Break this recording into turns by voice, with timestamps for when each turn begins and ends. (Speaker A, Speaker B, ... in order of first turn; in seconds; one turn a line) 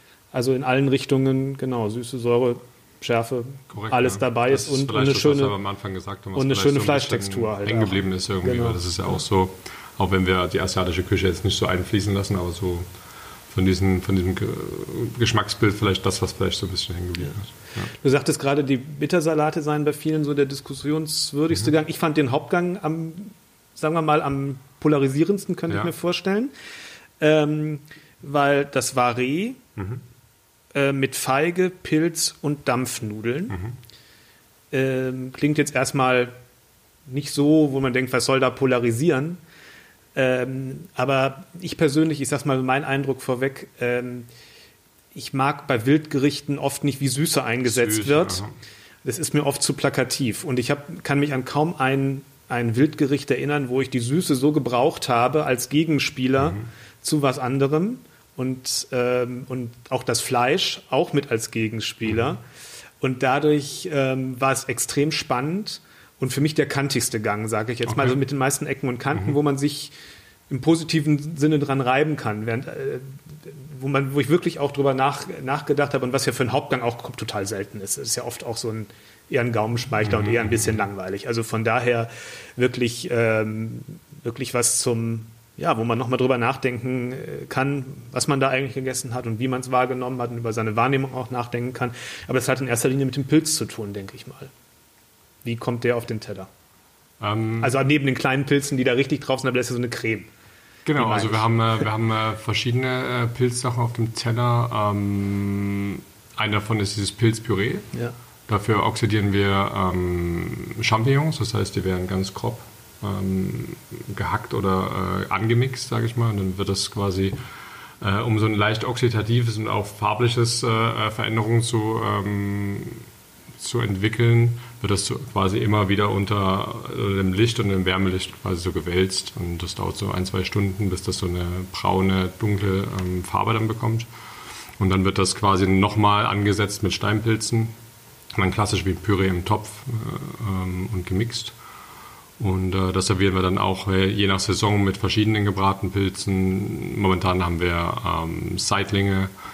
Speaker A: 0.3-5.5
Speaker B: 3.7-12.9
Speaker A: 6.3-9.2
Speaker B: 13.5-17.9
Speaker A: 17.9-26.5
Speaker A: 27.2-29.6
Speaker B: 29.8-30.0
Speaker A: 30.7-33.6
Speaker B: 33.5-33.8
Speaker A: 34.7-36.3
Speaker A: 37.1-39.4
Speaker A: 40.1-44.3
Speaker A: 45.1-48.4
Speaker B: 47.6-48.5
Speaker A: 49.0-62.4
Speaker B: 56.4-56.7
Speaker A: 63.0-69.9
Speaker B: 67.8-68.2
Speaker A: 70.5-94.5
Speaker B: 80.0-80.7
Speaker A: 95.4-96.5
Speaker B: 97.2-97.8
Speaker A: 97.6-100.3
Speaker B: 100.8-107.9
Speaker A: 101.0-101.5
Speaker B: 108.5-117.4
Speaker B: 118.0-123.1
Speaker B: 123.6-134.1
Speaker B: 134.8-137.7
Speaker B: 138.3-141.6
Speaker B: 142.4-149.3